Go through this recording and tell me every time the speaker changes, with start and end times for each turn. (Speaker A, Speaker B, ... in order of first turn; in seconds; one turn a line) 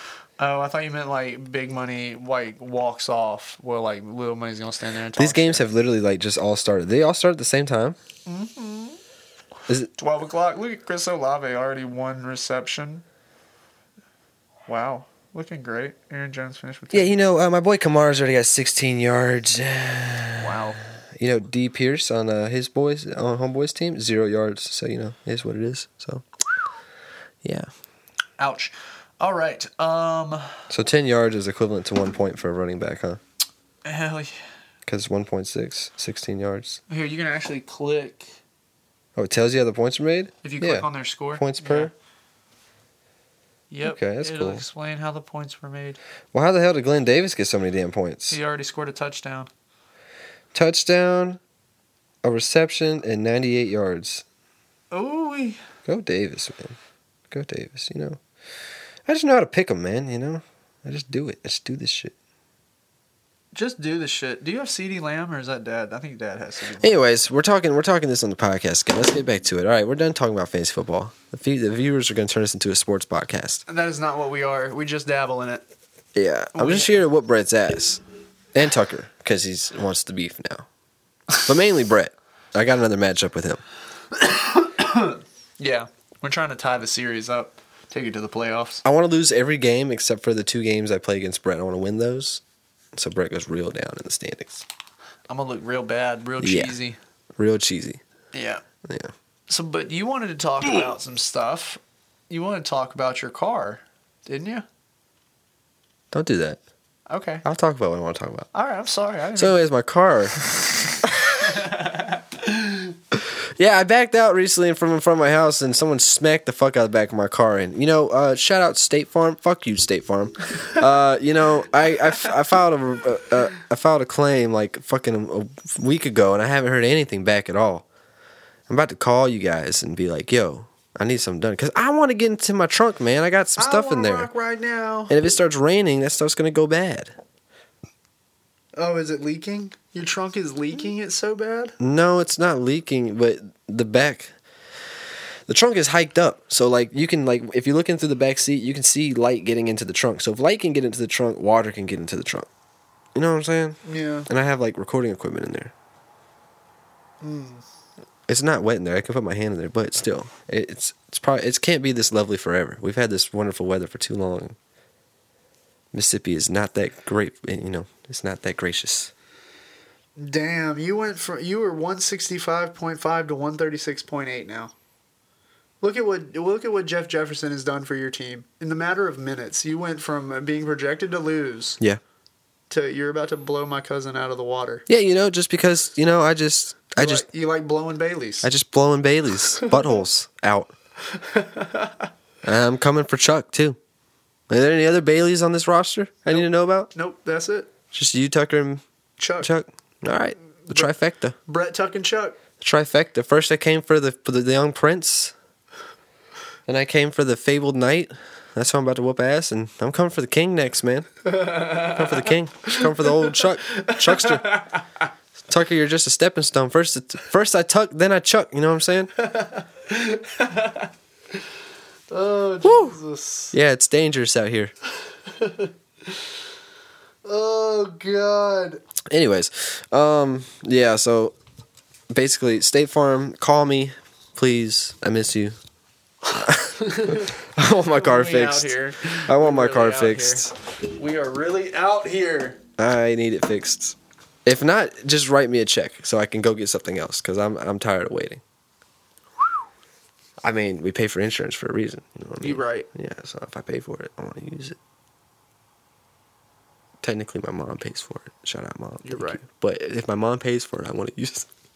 Speaker A: 0.4-5.6
Speaker B: 5.2-8.0
Speaker A: 8.2-9.0
Speaker A: 10.0-13.0
Speaker A: 14.7-17.1
Speaker B: 16.9-20.6
Speaker A: 20.4-20.8
Speaker B: 21.2-26.2
Speaker B: 27.4-27.7
Speaker A: 28.4-30.6
Speaker B: 30.7-33.2
Speaker A: 33.8-34.3
Speaker B: 34.9-36.8
Speaker A: 36.9-38.3
Speaker B: 39.1-41.9
Speaker A: 40.4-41.9
Speaker A: 43.7-46.0
Speaker B: 43.8-44.6
Speaker B: 46.3-48.4
Speaker A: 48.3-49.5
Speaker B: 50.5-51.4
Speaker B: 52.2-54.2
Speaker A: 54.9-55.6
Speaker B: 55.9-56.8
Speaker B: 57.3-58.2
Speaker B: 59.0-62.1
Speaker A: 63.5-66.9
Speaker B: 66.8-73.6
Speaker A: 73.7-75.6
Speaker B: 76.1-78.0
Speaker A: 76.5-77.0
Speaker B: 78.5-80.7
Speaker B: 81.4-83.6
Speaker A: 84.2-88.8
Speaker B: 88.8-92.4
Speaker B: 92.9-94.6
Speaker A: 95.3-97.0
Speaker B: 96.4-96.8
Speaker B: 97.4-98.0
Speaker A: 98.3-98.6
Speaker B: 98.8-99.1
Speaker A: 99.5-104.6
Speaker B: 106.1-106.6
Speaker A: 107.1-107.4
Speaker B: 107.4-108.5
Speaker A: 108.5-109.6
Speaker B: 109.3-110.3
Speaker B: 111.0-111.6
Speaker A: 111.5-112.9
Speaker B: 113.1-127.8
Speaker B: 128.7-134.3
Speaker A: 133.6-135.1
Speaker B: 135.1-137.1
Speaker A: 138.7-141.7
Speaker B: 141.8-144.3
Speaker B: 145.5-152.5
Speaker B: 153.1-155.7
Speaker A: 153.8-154.3
Speaker A: 157.2-157.6
Speaker B: 158.3-164.6
Speaker B: 165.9-169.1
Speaker A: 170.2-174.7
Speaker A: 175.8-181.8
Speaker A: 182.7-184.8
Speaker B: 184.9-187.2
Speaker A: 186.9-188.5
Speaker B: 188.4-190.7
Speaker A: 191.1-192.1
Speaker B: 192.4-193.8
Speaker B: 194.5-196.9
Speaker A: 196.3-197.7
Speaker B: 197.9-198.8
Speaker A: 199.2-199.5
Speaker B: 199.4-201.3
Speaker A: 201.5-202.4
Speaker B: 202.6-205.3
Speaker B: 206.7-214.6
Speaker A: 211.2-214.8
Speaker B: 215.5-219.1
Speaker A: 219.2-220.9
Speaker A: 222.1-223.5
Speaker B: 222.6-223.0
Speaker B: 223.5-224.7
Speaker A: 225.3-226.2
Speaker A: 227.2-228.8
Speaker B: 229.1-231.3
Speaker B: 232.1-235.6
Speaker B: 236.3-240.5
Speaker A: 236.7-237.3
Speaker A: 237.9-242.6
Speaker B: 242.8-248.4
Speaker B: 250.4-254.8
Speaker A: 252.4-252.9
Speaker B: 257.0-261.5
Speaker A: 259.0-259.4